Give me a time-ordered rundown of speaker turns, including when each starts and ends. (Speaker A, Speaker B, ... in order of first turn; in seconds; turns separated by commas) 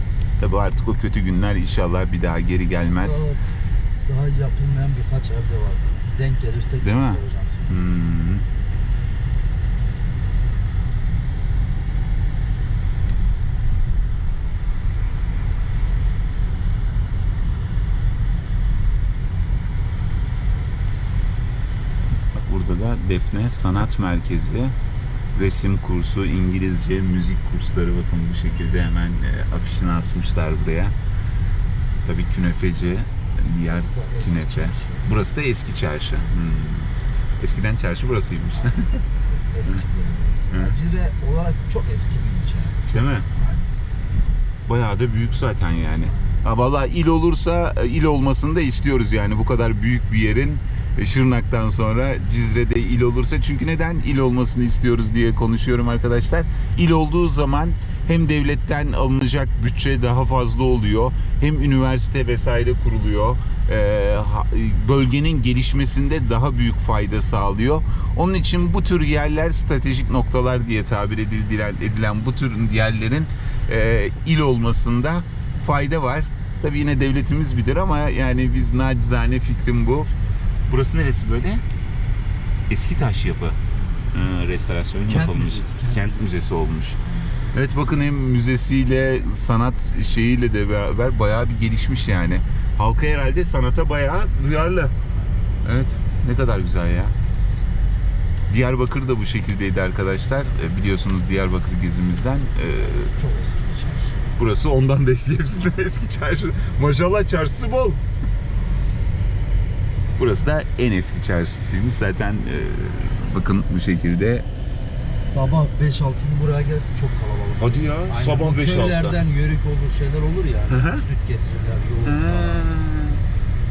Speaker A: 0.4-3.3, Speaker B: 3.0-3.4, Speaker B: 4.0-7.7, Speaker A: 6.8-8.4, Speaker A: 22.3-24.7, Speaker A: 25.4-30.9, Speaker A: 32.0-39.0, Speaker B: 33.7-35.1, Speaker B: 39.3-43.7, Speaker A: 40.5-40.8, Speaker A: 42.9-43.3, Speaker A: 44.7-80.1, Speaker A: 80.7-81.6, Speaker A: 82.7-83.6, Speaker A: 84.1-87.0, Speaker B: 85.0-86.4, Speaker A: 87.5-94.9, Speaker A: 95.6-97.1, Speaker A: 98.5-103.1, Speaker B: 102.8-104.3, Speaker A: 104.4-108.0, Speaker A: 110.2-114.5, Speaker B: 115.1-122.6, Speaker A: 117.6-119.2, Speaker A: 120.7-121.0, Speaker A: 122.0-123.2